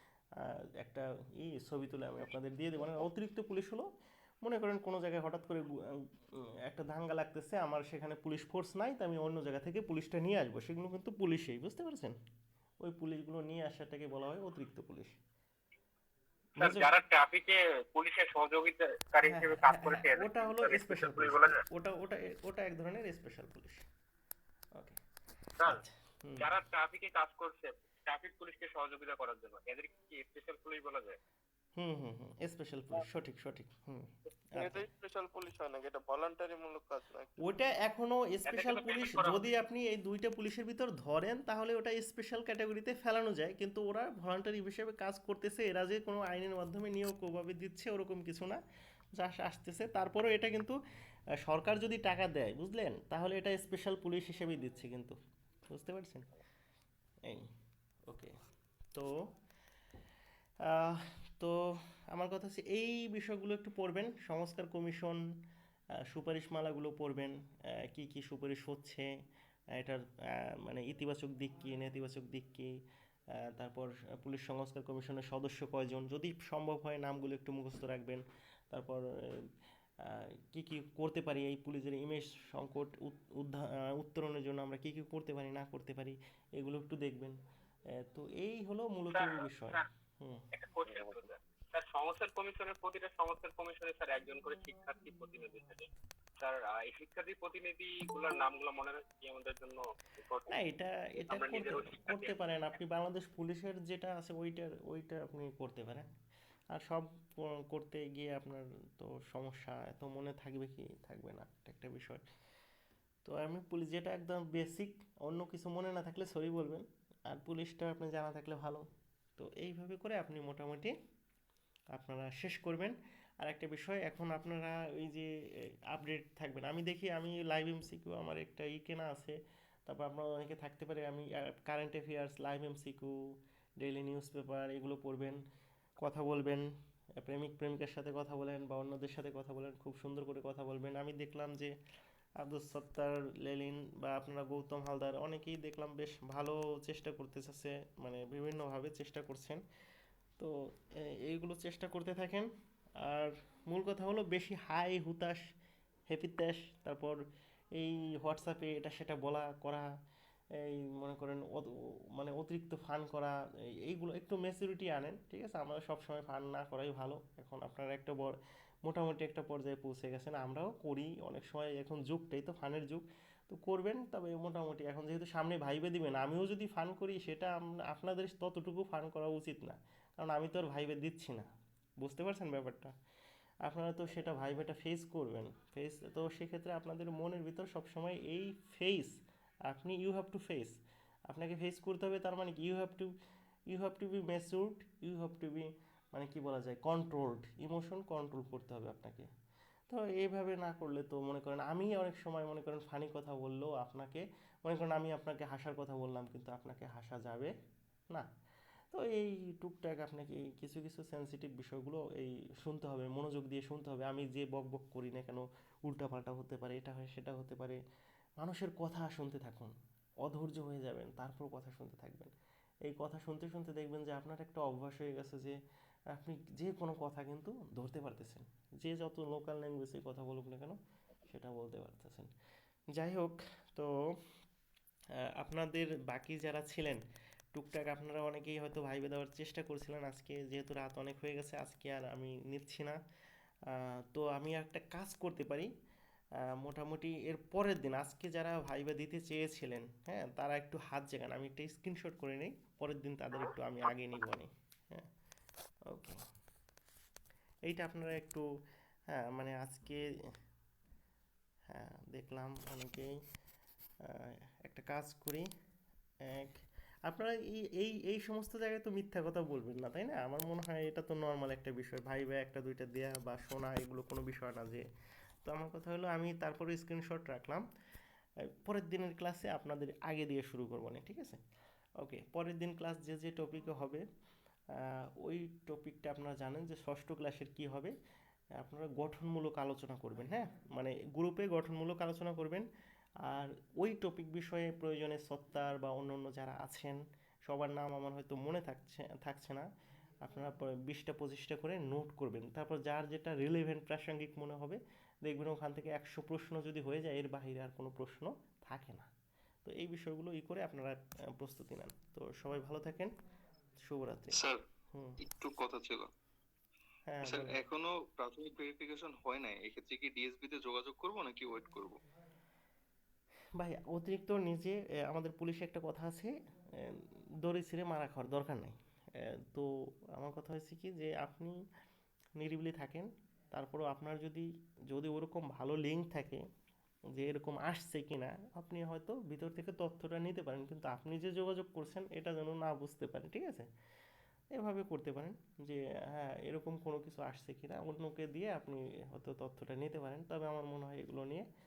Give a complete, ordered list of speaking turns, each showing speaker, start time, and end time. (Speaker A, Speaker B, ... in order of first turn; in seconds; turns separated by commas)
Speaker A: 0.4-3.9, Speaker A: 4.4-5.8, Speaker A: 6.7-12.1, Speaker A: 12.8-15.2, Speaker A: 16.6-16.9, Speaker B: 16.6-21.6, Speaker A: 19.2-23.8, Speaker A: 25.6-26.5, Speaker B: 26.4-31.2, Speaker A: 31.8-34.9, Speaker C: 34.5-37.4, Speaker A: 37.4-48.6, Speaker B: 38.5-39.4, Speaker A: 49.2-50.8, Speaker A: 51.4-55.2, Speaker A: 55.7-56.3, Speaker A: 58.1-58.3, Speaker A: 60.7-61.5, Speaker A: 62.1-65.2, Speaker A: 66.1-67.3, Speaker A: 67.9-69.1, Speaker A: 69.8-72.7, Speaker A: 73.5-79.5, Speaker A: 80.0-87.4, Speaker A: 87.9-90.4, Speaker B: 89.1-89.9, Speaker B: 90.5-100.5, Speaker A: 100.5-106.1, Speaker B: 101.2-102.4, Speaker A: 106.7-112.2, Speaker A: 113.2-118.8, Speaker A: 119.4-120.9, Speaker A: 121.9-125.3, Speaker A: 125.9-129.3, Speaker A: 129.8-133.1, Speaker A: 133.8-135.4, Speaker A: 136.0-136.7, Speaker A: 137.2-141.7, Speaker A: 142.4-149.6, Speaker A: 150.4-152.5, Speaker A: 153.0-155.4, Speaker A: 156.1-157.2, Speaker A: 157.8-159.9, Speaker A: 160.6-163.3, Speaker A: 163.8-181.5, Speaker A: 182.0-182.9, Speaker A: 183.7-189.1, Speaker A: 189.7-190.7, Speaker A: 191.3-193.1, Speaker A: 193.7-199.3, Speaker A: 199.9-207.5, Speaker A: 208.9-217.8, Speaker A: 218.4-219.7, Speaker A: 220.2-222.3, Speaker A: 222.9-225.6, Speaker A: 226.1-232.3, Speaker A: 233.0-233.9, Speaker A: 235.4-237.0, Speaker A: 237.5-243.0, Speaker A: 243.7-245.7, Speaker A: 246.6-255.1, Speaker A: 255.9-256.2, Speaker A: 257.7-258.4, Speaker A: 259.1-260.0, Speaker A: 261.7-263.1, Speaker A: 264.0-265.5, Speaker A: 266.2-266.6, Speaker A: 267.1-274.8, Speaker A: 275.4-277.6, Speaker A: 278.6-281.4, Speaker A: 282.0-284.0, Speaker A: 284.7-287.9, Speaker A: 288.6-292.7, Speaker A: 293.2-299.7, Speaker A: 300.2-309.1, Speaker A: 309.6-313.1, Speaker A: 313.8-314.4, Speaker A: 314.9-315.2, Speaker D: 315.2-316.1, Speaker A: 317.1-317.5, Speaker D: 317.2-322.0, Speaker A: 323.6-331.6, Speaker A: 332.4-336.4, Speaker A: 337.1-343.7, Speaker A: 344.5-351.5